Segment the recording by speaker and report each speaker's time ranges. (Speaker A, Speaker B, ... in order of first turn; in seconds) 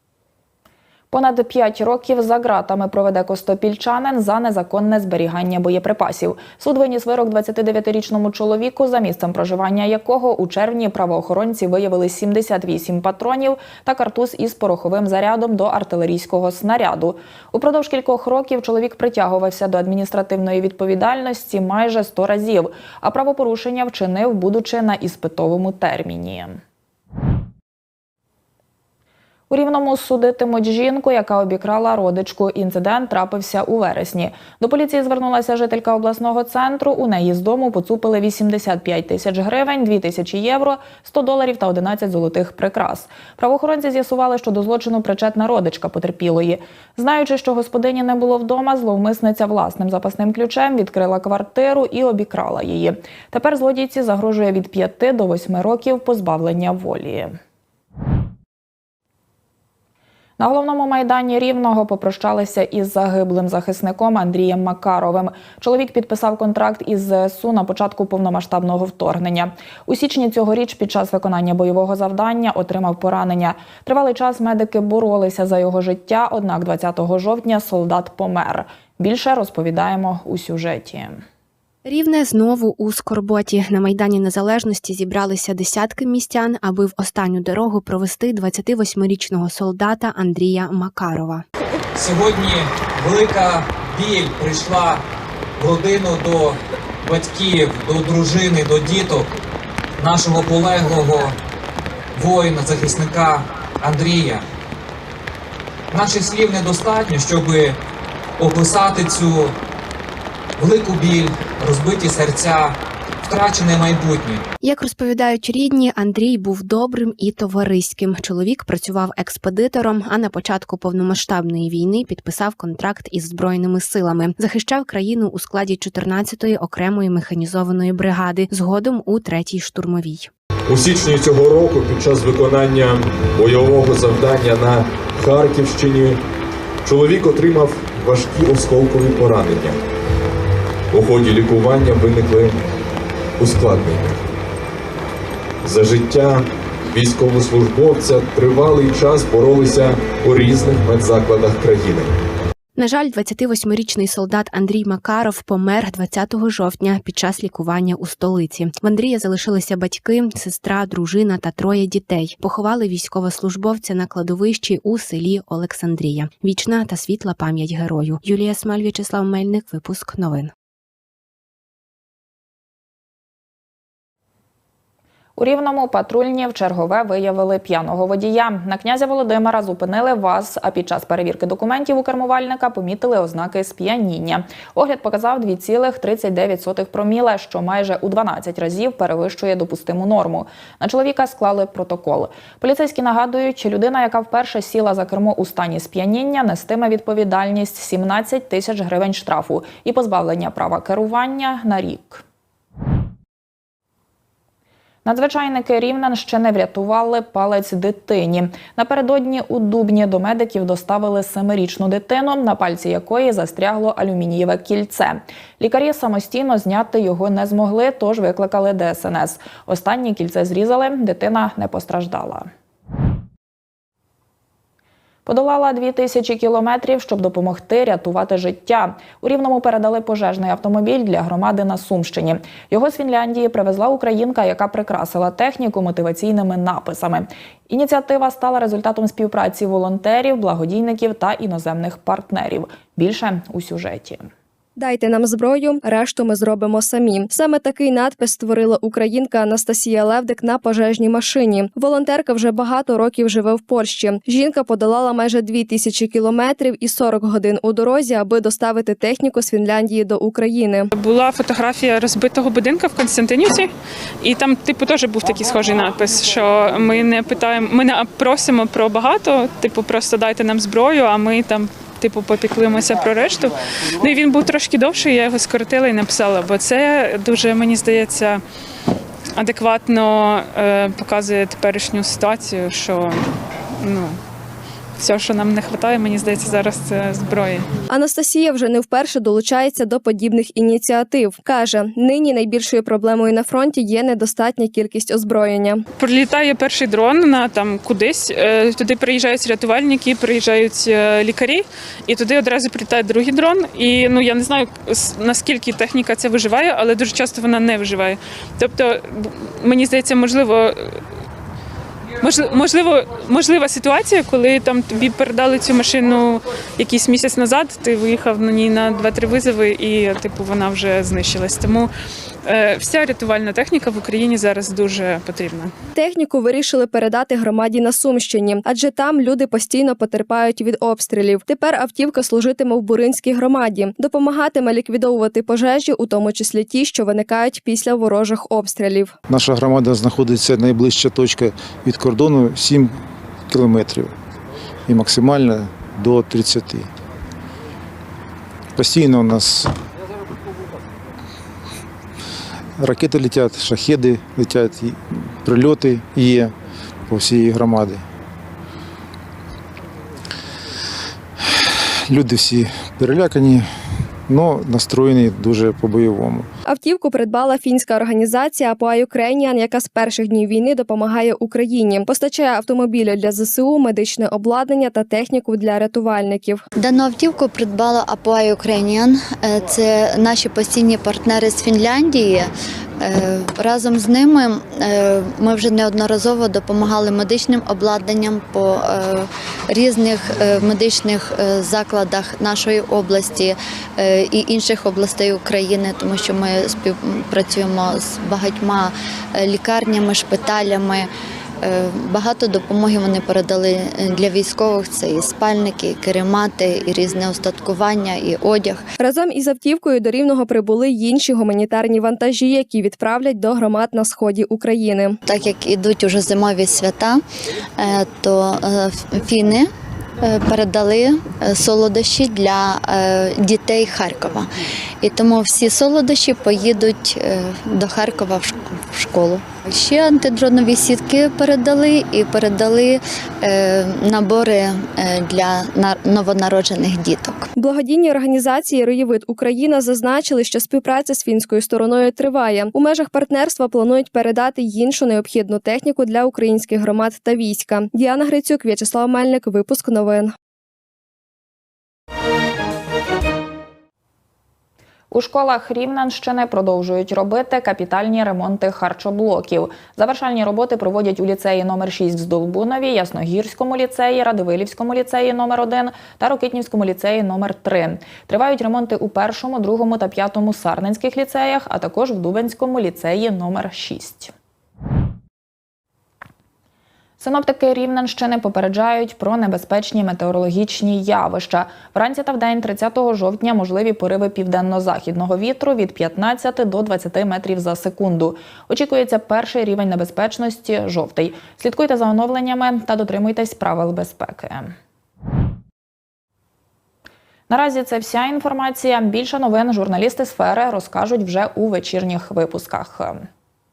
Speaker A: 1.1-26.6, 29.5-57.4, 60.4-81.2, 175.4-202.2, 205.0-222.5, 225.2-244.3, 455.1-474.3, 477.2-494.7, 497.5-503.3
Speaker B: 81.8-91.4, 114.6-130.3, 152.8-170.5
Speaker C: 92.0-95.0, 95.6-99.3, 100.0-101.4, 102.2-104.5, 105.9-107.8, 108.4-109.5, 110.6-114.4
Speaker D: 130.7-136.2, 136.8-139.8, 140.9-142.6, 143.4-144.2, 145.6-152.1
Speaker E: 244.8-260.9, 287.9-295.8, 325.9-339.1, 366.7-376.6, 409.0-415.2, 437.6-450.3
Speaker F: 260.9-263.7, 264.2-278.4, 279.4-283.2, 283.8-284.2, 285.0-287.6, 296.0-311.0, 312.2-321.9, 322.4-325.7
Speaker G: 339.3-342.9, 343.5-344.1, 344.9-346.9, 348.8-349.7, 352.8-356.5, 357.1-358.0, 362.1-363.7, 364.3-366.5
Speaker H: 376.8-382.5, 383.0-401.1, 401.6-408.8, 415.3-417.2, 417.8-419.7, 420.2-424.5, 425.0-437.5